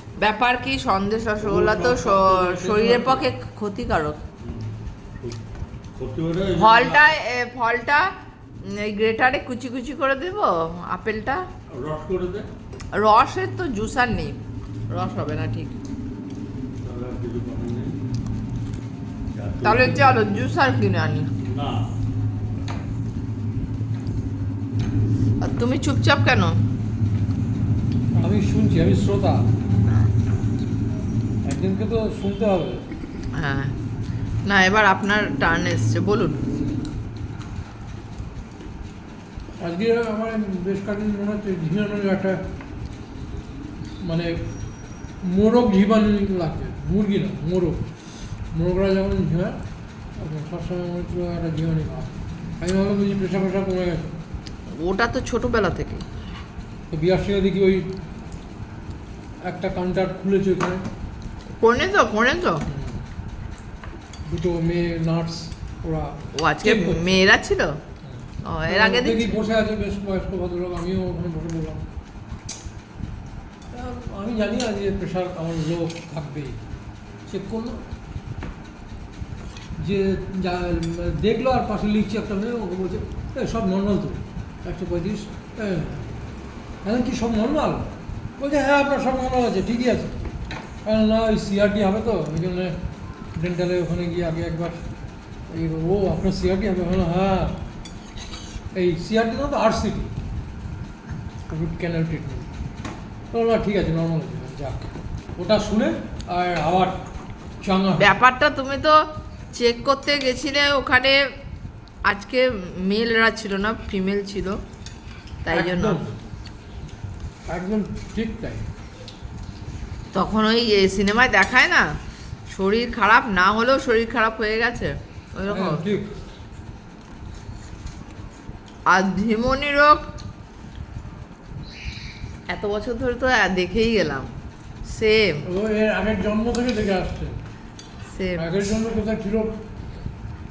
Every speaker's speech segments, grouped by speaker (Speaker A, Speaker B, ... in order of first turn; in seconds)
Speaker A: 0.2-4.2, 6.6-8.1, 8.6-11.4, 12.9-14.4, 14.9-15.8, 19.6-21.3, 25.4-26.6, 33.3-33.7, 34.4-36.4, 54.8-56.0, 61.6-62.6, 66.3-67.8, 68.4-69.4, 108.0-109.0, 109.5-111.2, 112.0-114.5, 115.4-116.0, 120.1-121.9, 122.5-125.9, 128.9-130.0, 132.5-134.3, 134.8-135.4, 138.1-138.5
Speaker B: 1.4-3.3, 4.4-5.4, 6.0-7.1, 11.7-12.5, 16.8-17.9, 19.3-20.4, 21.4-21.8
Speaker C: 28.1-29.4, 31.4-32.8, 39.6-42.4, 44.0-44.3, 45.2-47.8, 48.5-49.6, 50.2-54.1, 56.9-57.9, 59.4-60.8, 62.7-63.0, 64.2-67.3, 68.7-71.8, 73.7-76.5, 77.3-77.8, 79.8-86.1, 86.8-90.2, 90.8-92.8, 93.4-94.8, 95.5-97.5, 98.7-100.1, 101.5-102.5, 103.3-104.8, 105.4-107.0, 107.6-108.1, 115.5-116.1, 117.5-118.6, 125.5-126.1, 135.4-137.4, 138.4-139.6